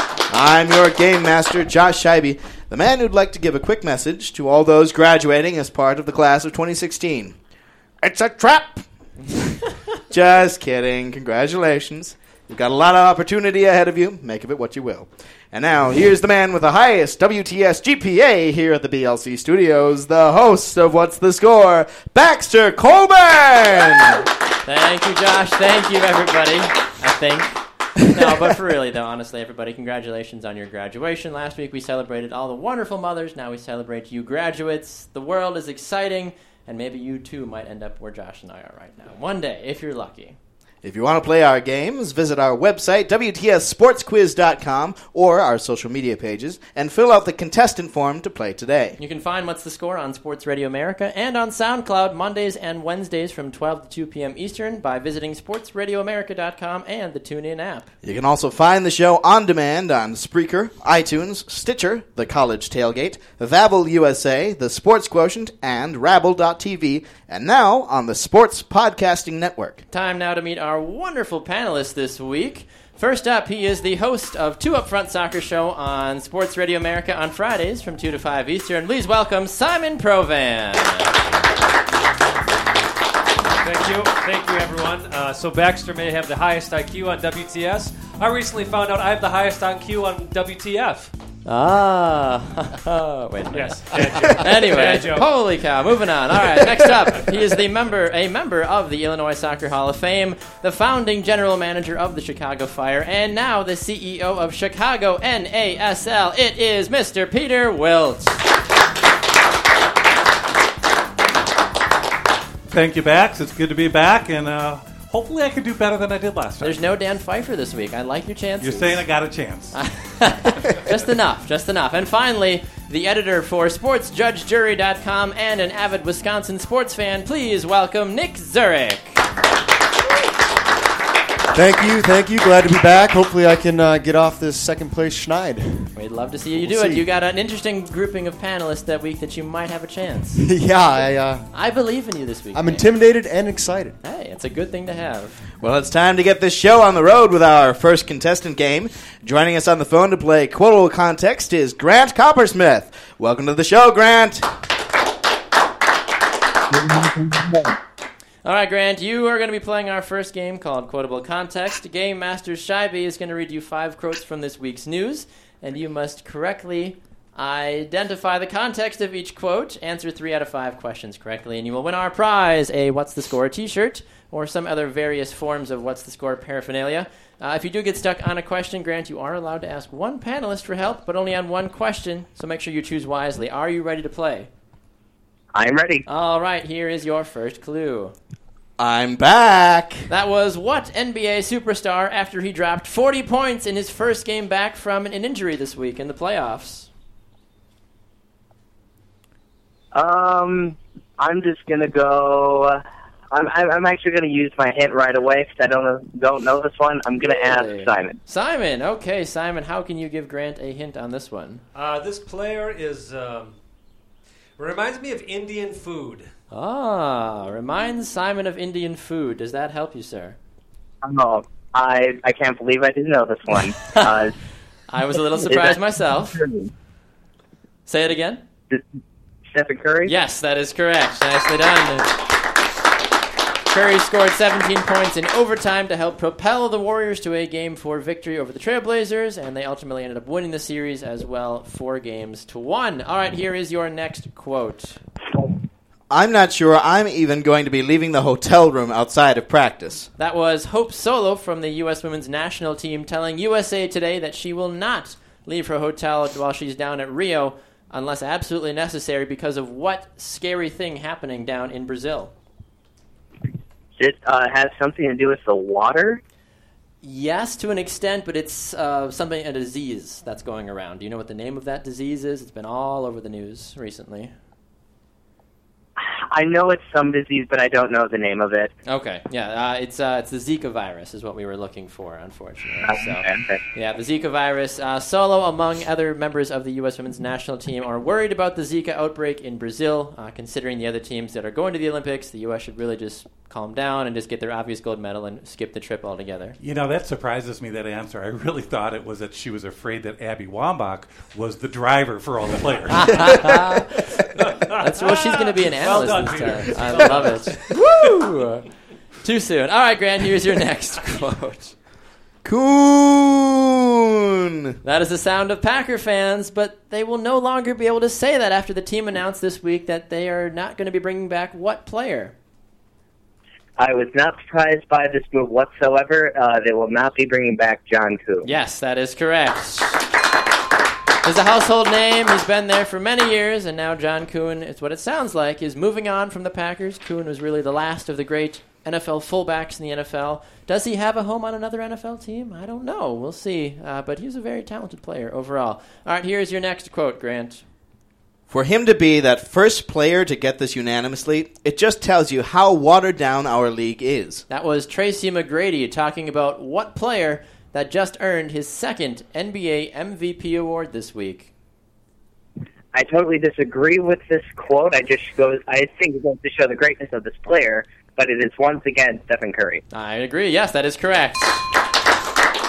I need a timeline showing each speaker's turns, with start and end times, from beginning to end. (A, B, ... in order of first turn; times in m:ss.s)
0:00.3-0:07.4 A
0:08.0-0:24.3 A
0:24.6-0:40.4 B
0:40.8-0:49.0 A
0:49.0-0:57.9 B
0:58.0-1:09.8 A
1:09.9-1:21.1 B
1:23.6-1:31.1 C
1:31.4-1:48.4 B
1:33.5-1:35.3 C
1:52.7-1:56.8 D
1:56.6-1:59.1 B
1:58.6-2:00.0 D
1:59.7-2:09.3 B
2:11.5-2:15.9 E
2:15.9-2:20.5 B
2:16.6-2:17.1 E
2:20.4-2:21.5 E
2:21.5-2:22.8 B
2:22.5-2:24.0 E
2:24.0-2:25.5 B
2:25.6-2:34.5 A
2:36.7-2:37.7 F
2:38.4-3:04.5 B
3:05.5-3:06.0 F
3:06.0-3:08.1 B
3:08.8-3:10.1 A
3:10.1-3:16.9 B
3:19.9-3:28.2 F
3:27.2-3:31.6 B
3:31.7-3:33.6 C
3:34.6-3:36.3 C
3:36.5-3:40.4 B
3:41.0-3:44.3 F
3:44.9-3:46.5 B
3:45.4-3:45.8 F
3:46.3-3:46.7 F
3:47.9-3:48.4 B
3:49.5-3:50.1 F
3:50.0-3:52.2 B
3:53.7-4:05.0 B
4:06.1-4:10.1 A
4:10.2-4:22.3 B
4:24.0-4:26.2 F
4:27.0-4:34.3 B
4:36.0-4:38.7 F
4:38.8-4:56.6 B
4:42.8-4:43.6 F
4:56.6-5:03.7 D
5:02.9-5:11.7 B
5:04.6-5:07.7 C
5:12.4-5:14.8 A
5:14.8-5:22.4 B
5:23.8-5:28.5 F
5:28.4-5:30.0 B
5:31.2-5:47.6 B
5:48.5-5:54.4 A
5:54.5-6:01.5 B
6:02.9-6:09.8 F
6:09.9-6:11.7 B